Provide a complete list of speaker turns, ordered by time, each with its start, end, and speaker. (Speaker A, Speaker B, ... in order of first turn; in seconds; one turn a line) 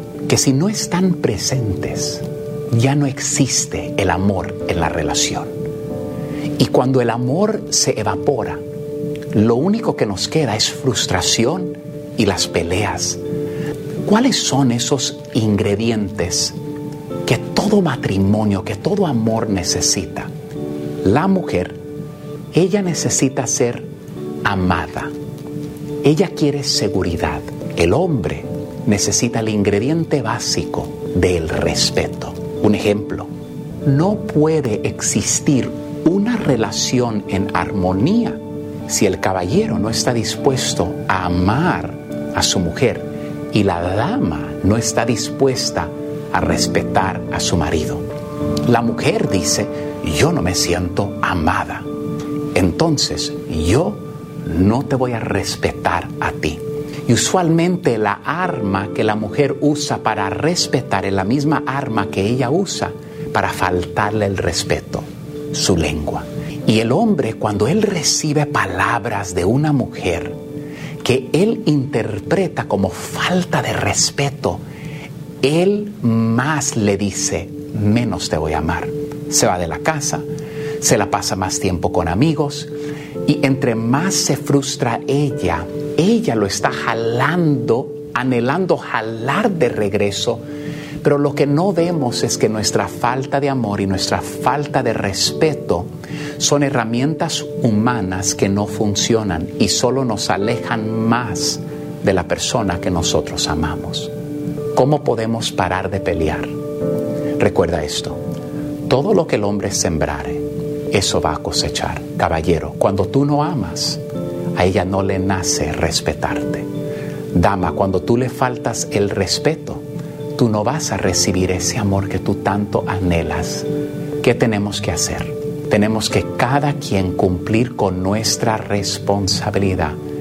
Speaker A: 0.3-5.6
Speaker A: 6.6-8.6
Speaker A: 9.3-13.2
Speaker A: 14.1-16.6
Speaker A: 17.2-20.3
Speaker A: 21.0-21.8
Speaker A: 22.5-23.9
Speaker A: 24.4-25.1
Speaker A: 26.0-33.3
Speaker A: 33.9-48.1
Speaker A: 48.7-51.9
Speaker A: 52.5-70.4
Speaker A: 71.0-74.6
Speaker A: 75.4-80.3
Speaker A: 80.8-82.7
Speaker A: 83.2-90.5
Speaker A: 91.0-104.1
Speaker A: 104.8-106.5
Speaker A: 107.4-108.2
Speaker A: 108.9-114.0
Speaker A: 114.5-116.7
Speaker A: 117.3-119.8
Speaker A: 120.4-123.7
Speaker A: 124.2-130.0